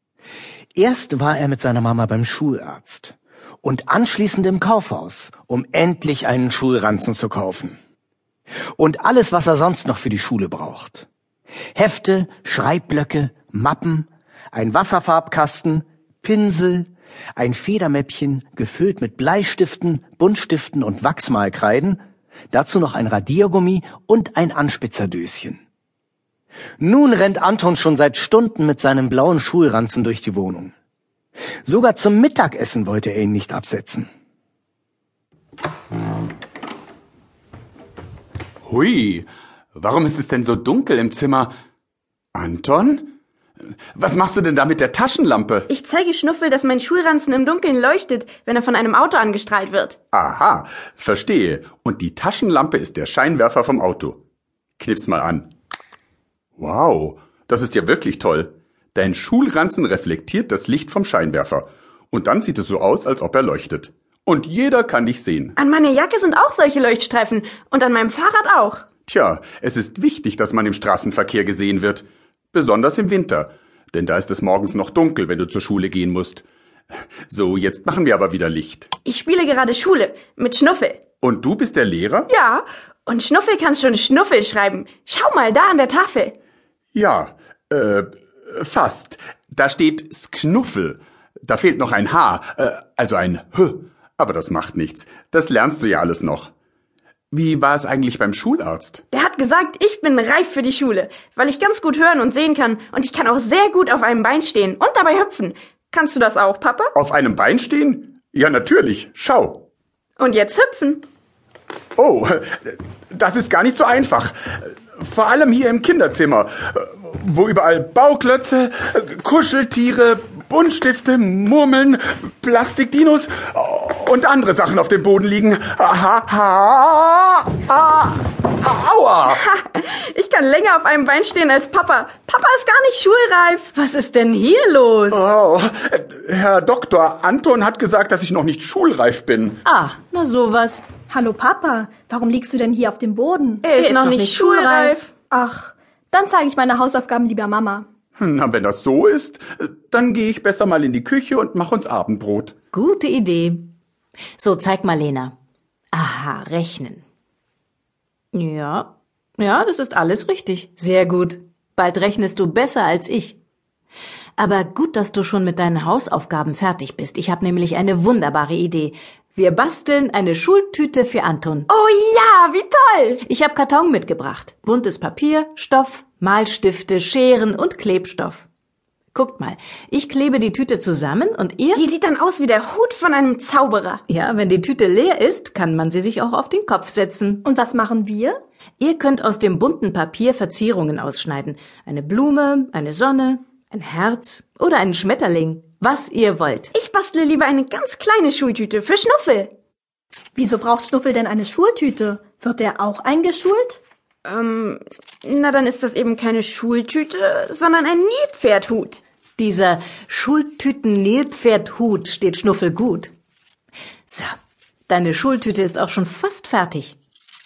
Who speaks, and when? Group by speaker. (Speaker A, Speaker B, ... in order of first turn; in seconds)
Speaker A: 0.8-7.8, 8.8-11.1, 11.7-25.6, 26.8-30.7, 31.6-34.1
Speaker B: 38.6-41.5, 42.3-43.1, 44.0-45.7, 50.1-54.2, 54.8-55.5, 56.6-65.5, 69.1-76.5, 77.3-78.9, 81.2-82.3, 86.9-96.5, 97.3-99.0, 107.0-109.7, 112.0-114.3, 115.0-129.4, 135.1-139.6, 148.2-152.5
Speaker C: 45.7-50.0, 65.6-68.9, 79.0-81.1, 82.3-86.3, 99.1-106.9, 110.2-111.0, 129.3-133.7, 143.6-145.1, 171.7-173.2, 181.8-184.0, 196.7-199.5, 204.2-209.0
Speaker D: 133.7-135.2, 139.7-140.8, 143.7-145.0, 152.7-153.7, 154.3-155.3, 155.9-157.0, 158.3-163.4, 164.4-171.7, 173.2-178.5, 179.1-181.8, 184.1-187.4, 188.8-196.7, 209.4-213.1, 214.1-214.3, 214.9-217.0
Speaker E: 141.1-143.7, 145.3-147.9, 187.5-188.4, 200.3-203.8